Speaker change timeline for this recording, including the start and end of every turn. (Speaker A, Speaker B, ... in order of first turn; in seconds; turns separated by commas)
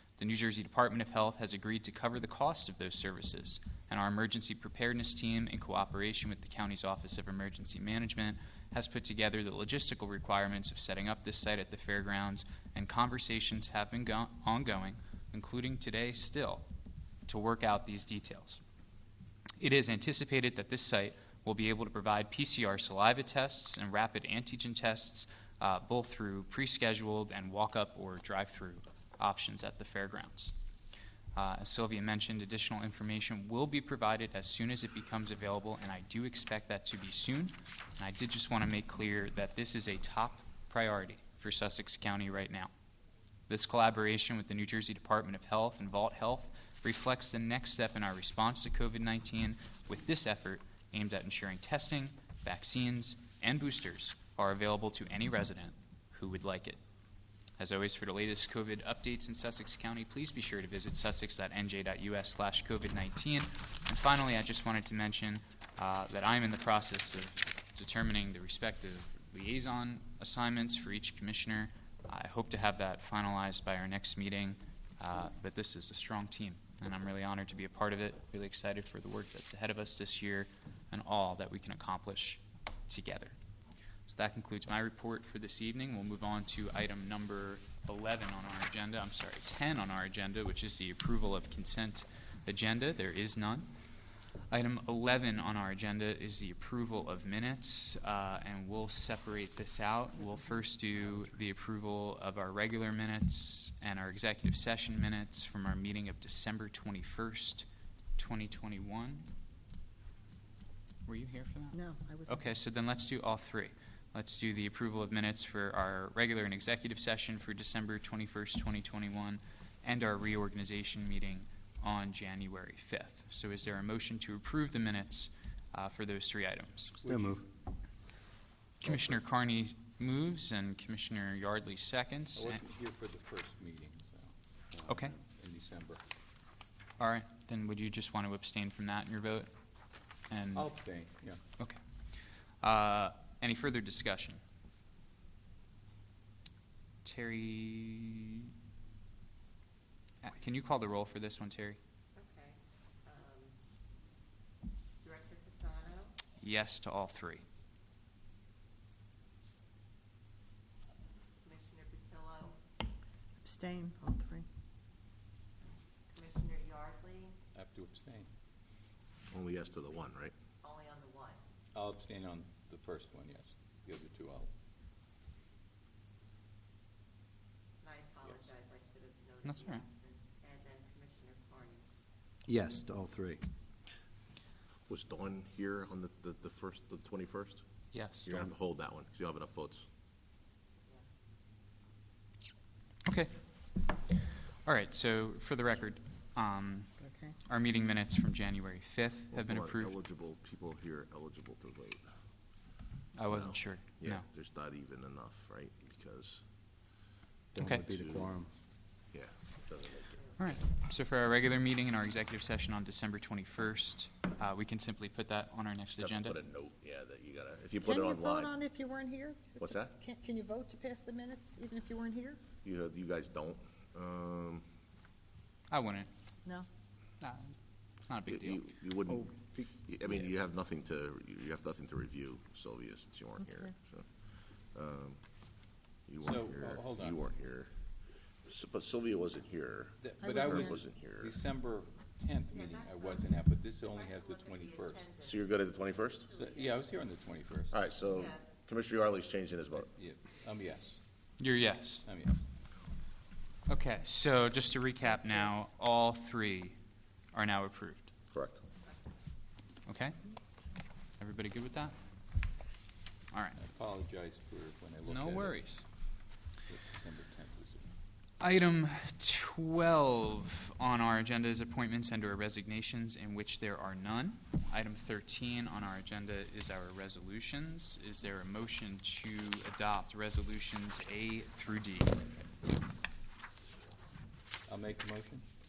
Speaker A: 0.2-16.7, Speaker A: 17.3-18.6, Speaker A: 19.6-30.5, Speaker A: 31.4-42.7, Speaker A: 43.5-56.8, Speaker A: 57.6-83.4, Speaker A: 84.1-93.7, Speaker A: 94.5-107.7, Speaker A: 108.2-109.3, Speaker A: 111.1-127.0, Speaker B: 111.7-112.4, Speaker C: 127.0-127.5, Speaker A: 128.8-132.6, Speaker D: 132.3-134.3, Speaker C: 134.7-135.2, Speaker A: 134.8-135.2, Speaker D: 135.3-136.0, Speaker A: 137.0-139.5, Speaker A: 140.3-140.7, Speaker D: 140.5-141.4, Speaker A: 142.6-144.4, Speaker A: 147.0-148.5, Speaker A: 150.2-151.8, Speaker E: 152.2-153.6, Speaker E: 155.0-156.2, Speaker A: 156.4-157.4, Speaker E: 161.4-162.6, Speaker B: 163.4-164.5, Speaker E: 166.1-167.4, Speaker D: 167.6-168.3, Speaker F: 169.3-170.3, Speaker E: 170.6-171.4, Speaker D: 171.8-174.5, Speaker E: 177.8-181.8, Speaker A: 179.4-179.8, Speaker C: 182.5-183.5, Speaker F: 184.9-187.6, Speaker A: 187.9-188.3, Speaker F: 188.2-189.8, Speaker A: 193.1-193.3, Speaker A: 194.6-199.9, Speaker B: 197.0-197.3, Speaker F: 199.3-202.1, Speaker A: 203.2-204.2, Speaker F: 203.3-206.4, Speaker C: 207.5-208.5, Speaker A: 207.6-207.9, Speaker F: 207.9-208.3, Speaker F: 209.1-210.2, Speaker E: 210.1-210.4, Speaker A: 210.4-216.4, Speaker F: 216.0-218.6, Speaker B: 217.8-222.4, Speaker F: 219.6-219.9, Speaker F: 222.6-224.7, Speaker A: 225.7-226.1, Speaker A: 227.2-228.7, Speaker F: 228.3-235.2, Speaker C: 229.1-229.8, Speaker F: 236.1-237.7, Speaker D: 236.2-237.2, Speaker F: 238.4-241.4, Speaker D: 240.0-245.1, Speaker B: 240.2-240.8, Speaker E: 242.5-245.5, Speaker F: 245.2-246.3, Speaker E: 246.3-246.9, Speaker D: 246.3-247.8, Speaker F: 247.7-249.9, Speaker E: 248.1-248.5, Speaker D: 249.9-251.0, Speaker A: 251.4-252.1, Speaker D: 252.0-252.4, Speaker A: 253.7-256.8, Speaker A: 257.3-258.1, Speaker F: 258.3-258.6, Speaker A: 259.9-260.2, Speaker A: 261.2-261.9, Speaker A: 263.3-263.6, Speaker D: 263.6-265.6, Speaker A: 265.1-265.9, Speaker D: 266.6-267.9, Speaker A: 268.4-282.2, Speaker D: 284.7-285.5